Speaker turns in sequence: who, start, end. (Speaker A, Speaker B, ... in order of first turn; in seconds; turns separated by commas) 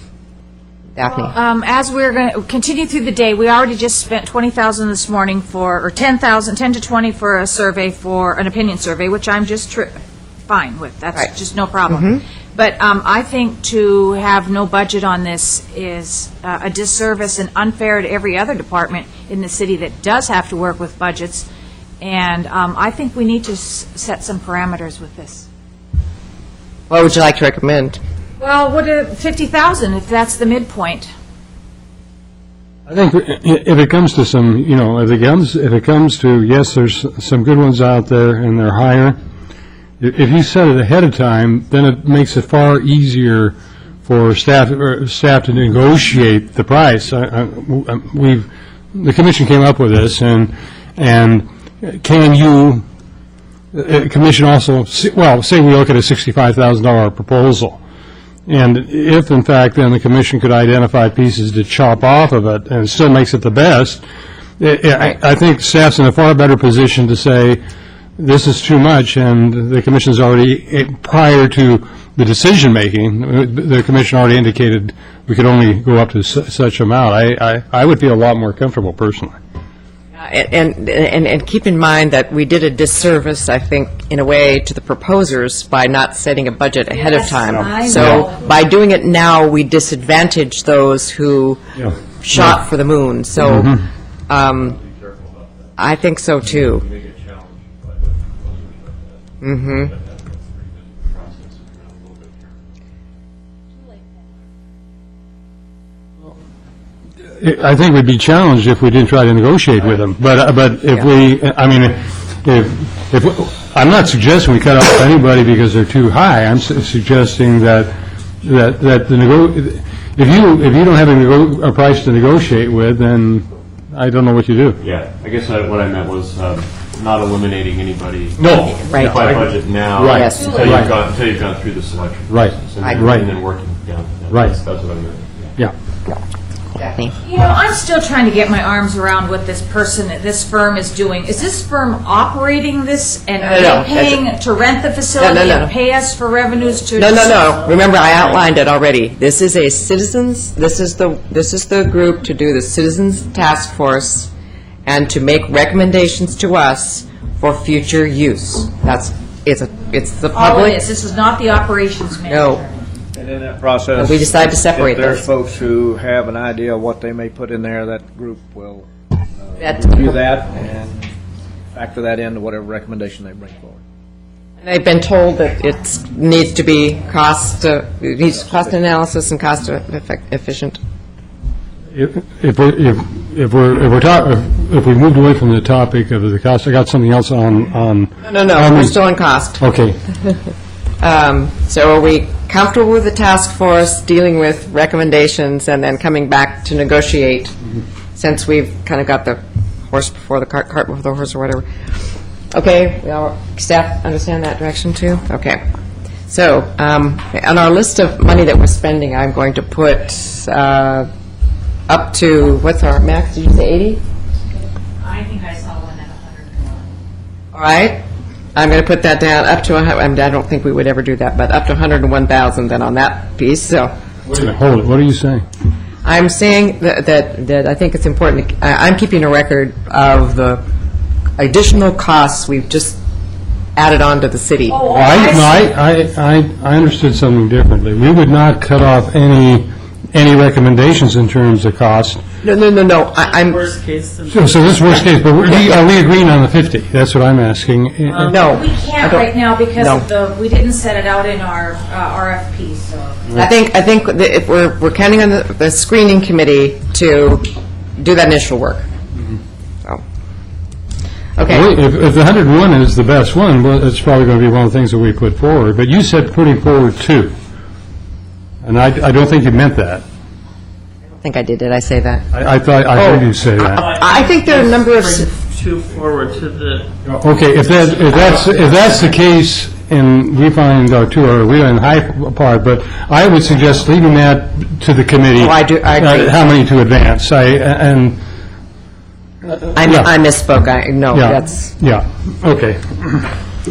Speaker A: 0.9-1.3, Speaker B: 1.0-21.5, Speaker A: 11.9-12.2, Speaker B: 22.0-25.4, Speaker A: 26.9-28.0, Speaker B: 28.4-31.1, Speaker C: 32.9-39.2, Speaker C: 40.0-52.8, Speaker C: 53.7-57.8, Speaker C: 58.5-64.0, Speaker C: 64.6-67.6, Speaker C: 68.2-79.3, Speaker A: 80.2-91.6, Speaker B: 86.9-88.3, Speaker C: 87.8-88.2, Speaker C: 91.8-92.6, Speaker A: 92.2-94.8, Speaker C: 93.4-93.8, Speaker D: 94.5-95.9, Speaker A: 95.8-96.8, Speaker D: 96.4-102.8, Speaker A: 99.4-99.9, Speaker C: 107.3-124.8, Speaker D: 124.8-135.5, Speaker C: 128.4-130.9, Speaker A: 130.1-130.6, Speaker B: 130.2-130.9, Speaker C: 132.3-133.3, Speaker C: 134.3-134.6, Speaker A: 136.7-137.2, Speaker B: 137.2-147.4, Speaker A: 143.4-144.2, Speaker A: 145.2-145.7, Speaker A: 146.9-154.3, Speaker A: 154.8-160.8, Speaker B: 160.3-162.8, Speaker A: 162.3-162.6, Speaker E: 163.1-171.1, Speaker A: 163.9-165.3, Speaker A: 169.6-170.1, Speaker E: 171.7-173.8, Speaker A: 174.6-180.8, Speaker C: 181.9-189.0, Speaker A: 188.2-189.6, Speaker C: 189.6-190.0, Speaker A: 191.0-197.5, Speaker A: 198.2-201.6, Speaker A: 202.5-205.6, Speaker A: 206.3-211.1, Speaker A: 211.9-214.0, Speaker B: 215.0-216.9, Speaker A: 217.5-218.0, Speaker A: 218.5-223.9, Speaker C: 224.2-225.4, Speaker A: 226.0-230.6, Speaker A: 231.4-233.0, Speaker A: 233.8-234.8, Speaker B: 234.7-235.6, Speaker C: 234.9-242.2, Speaker A: 242.4-243.6, Speaker F: 243.2-244.8, Speaker C: 244.3-248.3, Speaker F: 248.1-248.5, Speaker A: 248.2-250.0, Speaker B: 248.4-253.2, Speaker A: 253.3-258.9, Speaker A: 261.4-261.7, Speaker C: 261.4-267.3, Speaker C: 268.6-270.0, Speaker A: 271.2-272.2, Speaker C: 272.3-273.9, Speaker A: 272.9-275.3, Speaker F: 273.8-276.9, Speaker C: 277.0-288.2, Speaker A: 285.4-286.3, Speaker C: 289.4-290.1, Speaker A: 289.7-291.7, Speaker C: 291.1-293.3